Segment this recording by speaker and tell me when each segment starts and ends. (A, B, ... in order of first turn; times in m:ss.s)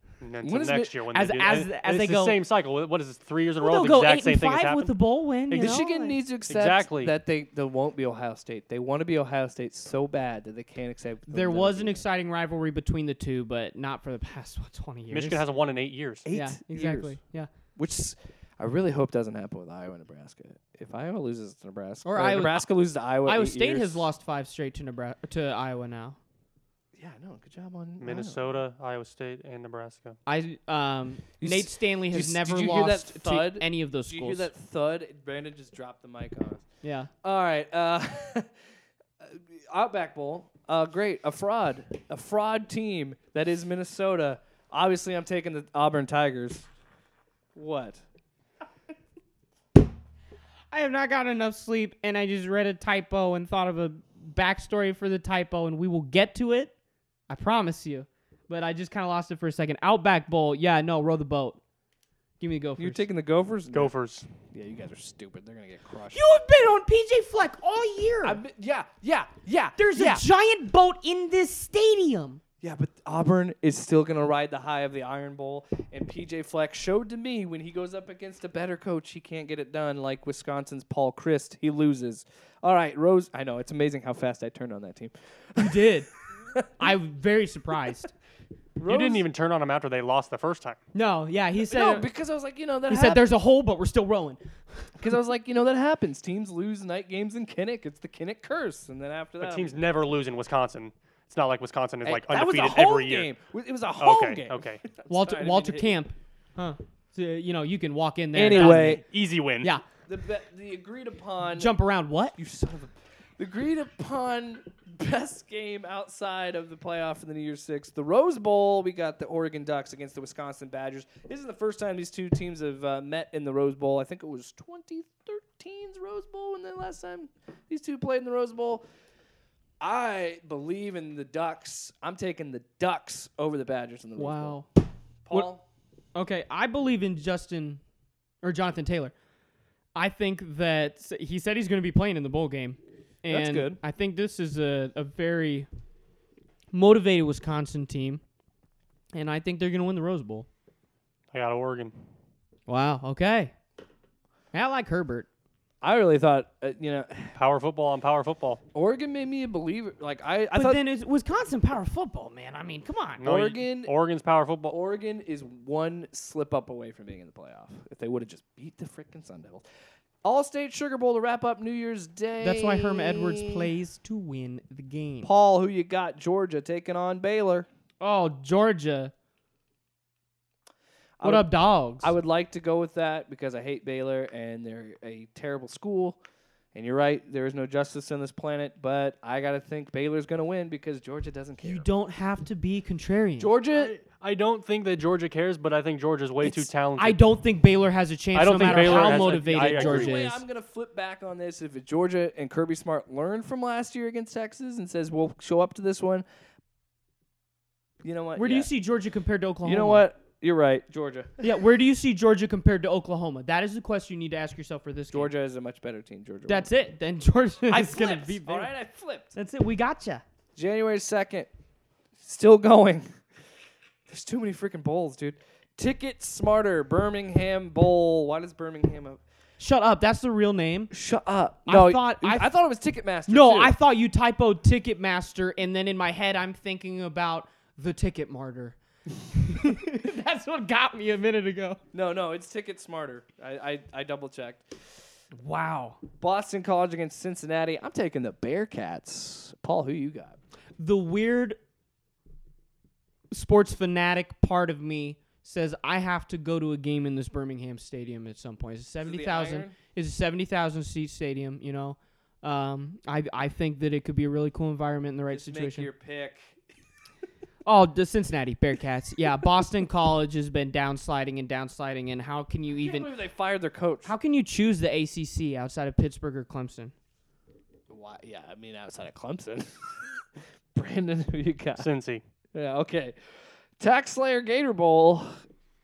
0:00.2-0:05.0 A
0:00.4-0:01.0 B
0:01.1-0:02.4 C
0:03.6-0:06.2 C
0:05.5-0:05.8 A
0:05.6-0:12.0 B
0:06.5-0:07.1 A
0:11.3-0:15.4 C
0:15.1-0:16.2 A
0:16.2-0:17.2 B
0:16.3-0:17.5 C
0:17.8-0:24.1 B
0:22.0-0:22.7 C
0:23.2-0:26.2 C
0:27.0-0:28.5 B
0:28.0-0:30.2 A
0:30.2-0:34.5 C
0:31.4-0:36.6 B
0:36.8-0:37.1 C
0:37.2-0:38.5 B
0:39.2-0:46.7 B
0:47.5-0:48.0 B
0:50.7-0:56.7 C
0:57.3-1:01.6 C
1:02.4-1:03.0 C
1:02.8-1:03.9 B
1:03.7-1:04.3 A
1:04.5-1:06.2 B
1:06.1-1:08.4 C
1:08.2-1:10.2 B
1:09.8-1:12.4 C
1:12.6-1:25.9 B
1:25.6-1:26.1 C
1:26.5-1:26.9 B
1:26.8-1:28.1 C
1:28.8-1:29.2 B
1:28.9-1:30.8 A
1:30.9-1:32.1 C
1:31.6-1:33.2 B
1:32.9-1:34.9 C
1:35.0-1:39.8 B
1:39.4-1:43.3 A
1:42.0-1:46.0 B
1:44.0-1:44.8 A
1:45.1-1:49.0 C
1:48.3-1:49.0 B
1:48.5-1:49.7 A
1:50.1-1:51.7 B
1:51.6-1:52.4 C
1:52.4-2:08.8 B
2:09.8-2:14.6 B
2:14.2-2:14.7 C
2:15.2-2:15.6 B
2:16.1-2:17.8 C
2:18.4-2:19.1 C
2:19.9-2:25.7 C
2:23.3-2:23.8 B
2:26.7-2:28.2 C
2:29.1-2:30.5 C
2:31.3-2:31.9 A
2:32.7-2:33.5 C
2:34.5-2:35.3 C
2:35.8-2:37.3 B
2:37.4-2:38.6 A
2:38.7-2:40.8 B
2:40.5-2:43.2 C
2:43.2-2:44.7 A
2:43.2-2:43.9 B
2:44.7-2:49.6 B
2:50.2-2:53.7 B
2:52.4-2:55.3 C
2:55.2-2:57.7 B
2:58.0-2:59.1 C
3:01.2-3:01.5 B
3:01.2-3:02.1 C
3:02.0-3:06.2 B
3:06.7-3:11.9 B
3:11.6-3:13.5 C
3:13.4-3:13.9 B
3:13.7-3:17.2 A
3:16.4-3:20.4 C
3:18.3-3:20.2 A
3:18.5-3:26.2 B
3:28.0-3:28.7 B
3:28.4-3:30.1 C
3:29.6-3:31.5 B
3:31.4-3:35.3 C
3:35.1-3:36.7 B
3:36.5-3:38.7 C
3:37.7-3:39.3 B
3:39.3-3:40.2 C
3:40.6-3:41.5 B
3:42.2-3:43.1 B
3:44.1-3:49.2 B
3:49.6-3:50.9 C
3:50.9-3:53.7 B
3:51.6-3:52.5 C
3:53.3-3:58.8 C
3:59.3-4:01.8 C
4:01.9-4:04.6 B
4:05.3-4:06.0 C
4:06.2-4:10.4 B
4:10.8-4:11.6 C
4:13.3-4:25.9 C
4:19.0-4:19.7 B
4:25.3-4:26.5 B
4:27.6-4:33.1 C
4:32.7-4:34.1 B
4:34.0-4:36.9 C
4:37.9-4:40.1 B
4:40.7-4:41.9 B
4:41.8-4:42.2 A
4:42.5-4:43.1 B
4:43.8-4:45.4 B